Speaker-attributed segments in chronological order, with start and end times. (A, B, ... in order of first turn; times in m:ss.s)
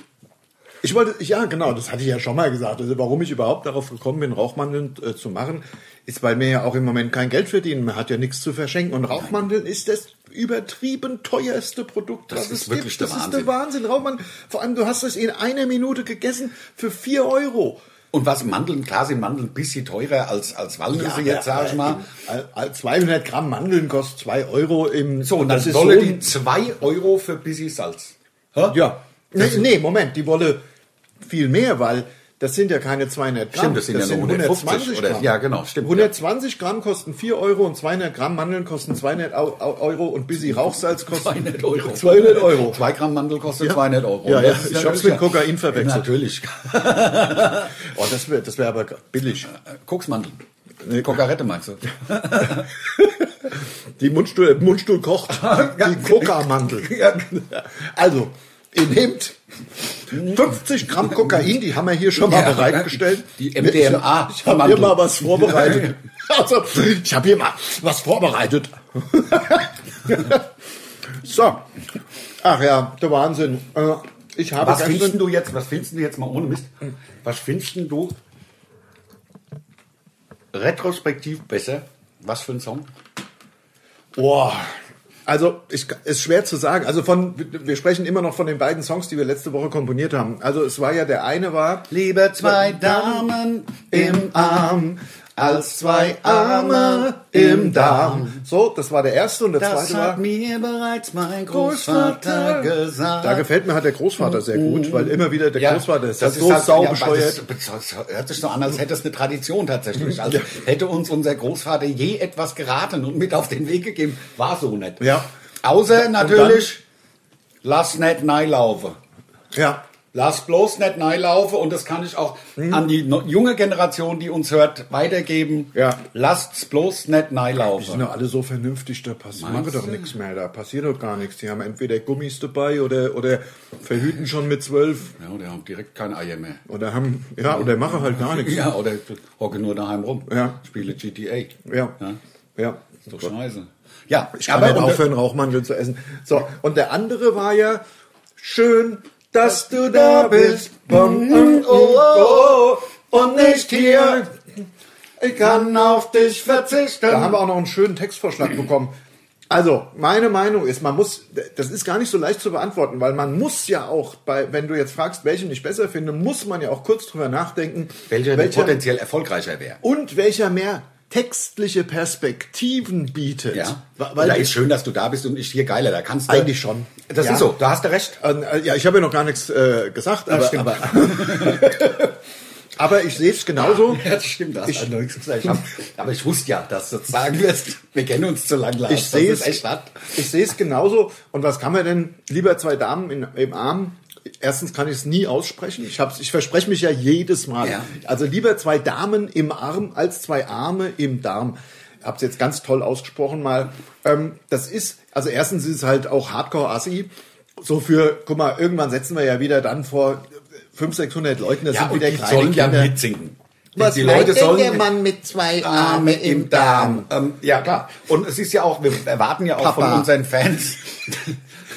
0:00.8-0:17.8 A
0:12.3-0:13.5 B
0:18.1-0:22.1 B
0:20.9-0:26.3 A
0:25.2-0:29.6 B
0:28.7-0:30.6 A
0:31.2-0:35.3 A
0:33.5-0:36.1 B
0:35.8-0:42.8 A
0:40.4-0:47.7 B
0:43.6-0:46.1 A
0:47.8-0:49.5 A
0:49.5-0:52.7 B
0:52.8-0:59.4 A
0:55.3-0:57.3 B
1:00.0-1:10.5 A
1:00.1-1:00.4 B
1:02.2-1:06.0 B
1:11.2-1:11.7 A
1:12.4-1:15.2 A
1:14.6-1:18.2 B
1:20.5-1:22.9 B
1:24.2-1:24.7 A
1:25.2-1:33.3 A
1:31.9-1:38.4 B
1:33.9-1:40.2 A
1:39.6-1:43.4 B
1:41.5-1:47.4 A
1:44.2-1:56.8 B
1:55.0-1:55.3 A
1:55.9-1:56.7 A
1:57.6-1:59.0 B
1:59.5-1:59.8 A
2:00.1-2:08.1 B
2:05.7-2:06.0 A
2:07.8-2:15.1 A
2:09.4-2:10.1 B
2:15.2-2:16.6 B
2:16.7-2:18.6 A
2:17.4-2:22.2 B
2:20.3-2:20.6 A
2:21.6-2:22.0 A
2:22.6-2:23.3 A
2:23.0-2:25.0 B
2:24.4-2:27.8 A
2:28.4-2:34.3 A
2:29.4-2:34.3 B
2:35.2-2:36.0 A
2:35.2-2:37.4 B
2:37.1-2:38.9 A
2:39.5-2:48.8 A
2:48.1-2:49.8 B
2:49.8-2:54.6 A
2:53.5-2:56.5 B
2:56.3-2:57.6 A
2:57.1-2:58.2 B
2:58.2-3:02.1 A
3:00.3-3:01.9 B
3:02.8-3:04.1 A
3:03.6-3:10.2 B
3:04.6-3:05.5 A
3:08.9-3:33.0 A
3:17.6-3:17.9 B
3:31.7-3:34.9 B
3:33.7-3:37.1 A
3:35.6-3:41.4 B
3:39.6-3:40.1 A